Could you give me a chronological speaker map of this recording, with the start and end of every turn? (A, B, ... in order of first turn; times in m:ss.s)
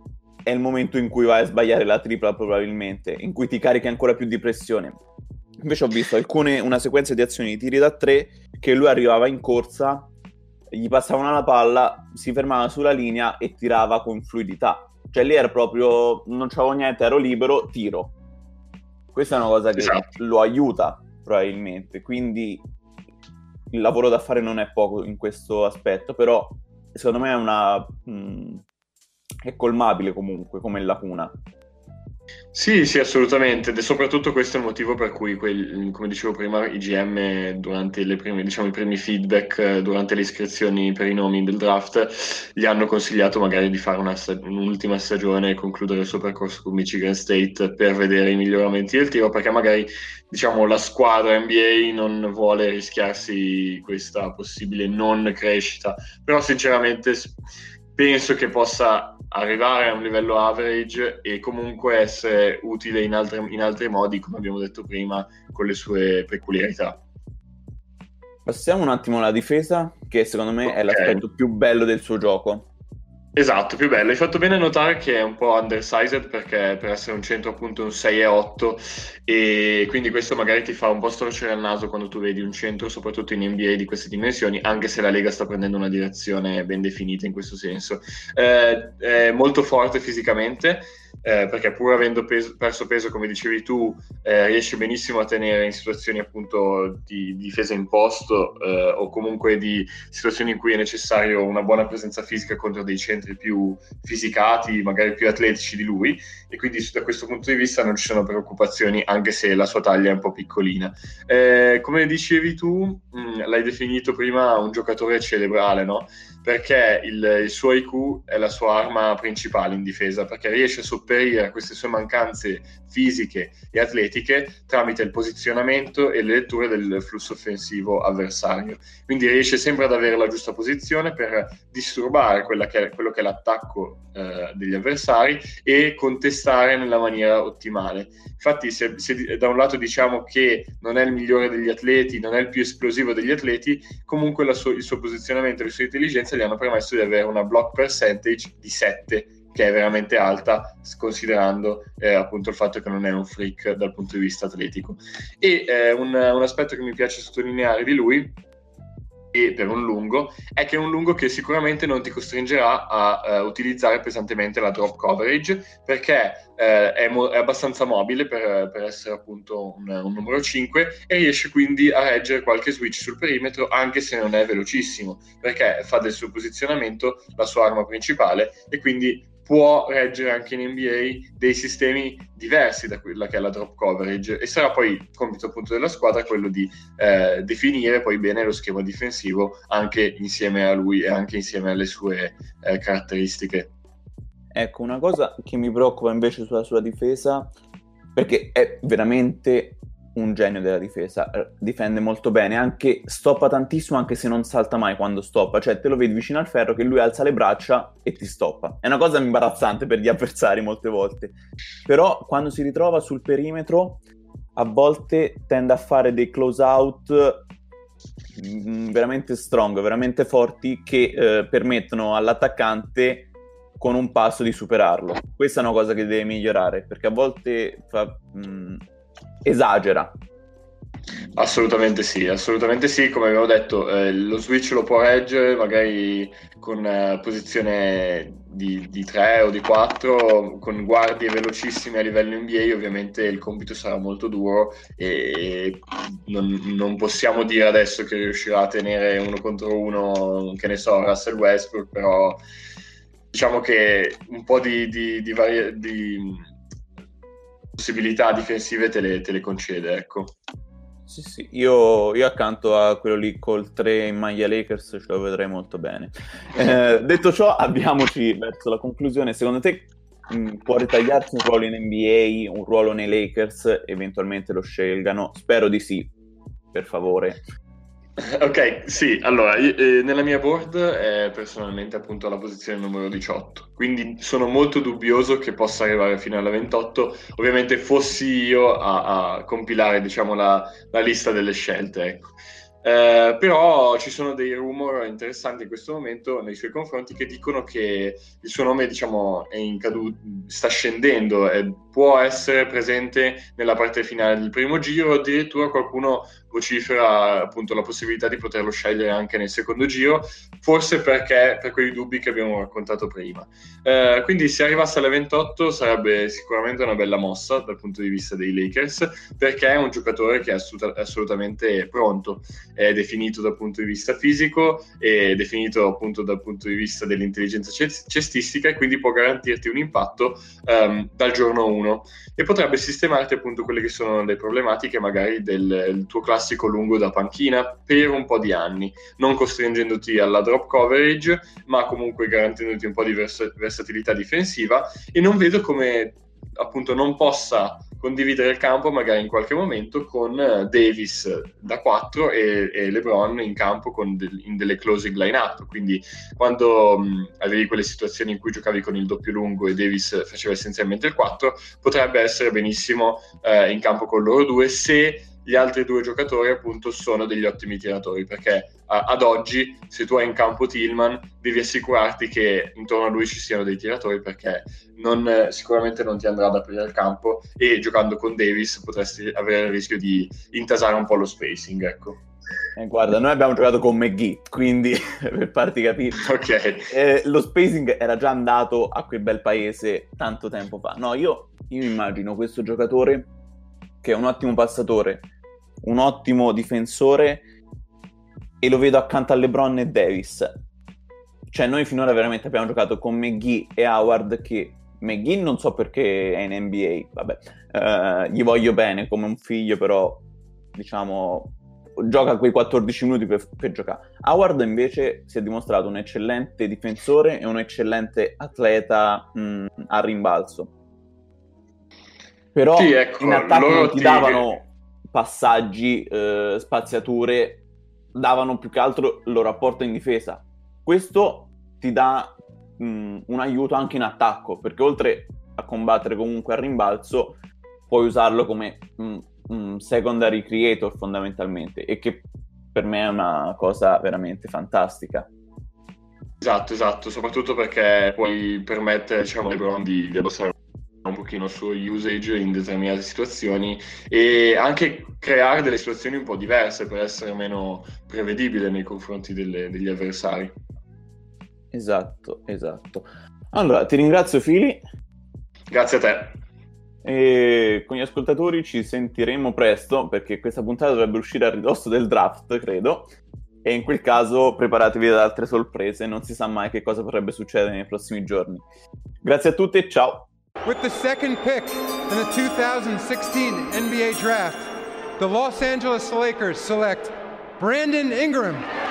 0:00.4-0:05.0 A
0:05.6-0:10.1 A
0:10.7-0:18.2 A
0:19.1-0:22.6 A
0:19.8-0:20.1 B
0:23.7-0:28.6 A
0:29.4-0:31.3 A
0:32.5-0:57.4 B
0:58.0-1:07.0 B
1:08.4-1:12.7 A
1:10.6-1:11.2 B
1:13.4-2:38.4 B
2:39.3-3:13.7 B
3:14.5-3:17.5 A
3:18.2-3:34.0 A
3:34.6-3:37.5 A
3:38.4-3:48.8 A
3:49.4-3:50.1 A
3:51.3-4:12.4 B
4:13.3-4:16.5 B
4:17.8-4:20.3 B
4:21.1-4:36.1 A
4:36.7-4:37.4 A
4:38.2-6:22.2 B
6:22.8-6:26.2 A
6:26.2-6:26.8 B
6:26.9-6:33.3 A
6:34.0-6:35.3 A
6:35.8-6:37.5 A
6:38.6-6:40.6 A
6:41.5-7:00.7 A
7:02.5-7:25.3 A
7:02.7-7:04.4 B
7:26.4-7:40.5 B
7:41.7-7:44.8 A
7:45.7-7:46.4 B
7:47.0-7:53.1 A
7:53.6-7:58.6 A
7:59.2-8:00.3 A
8:00.6-8:08.7 C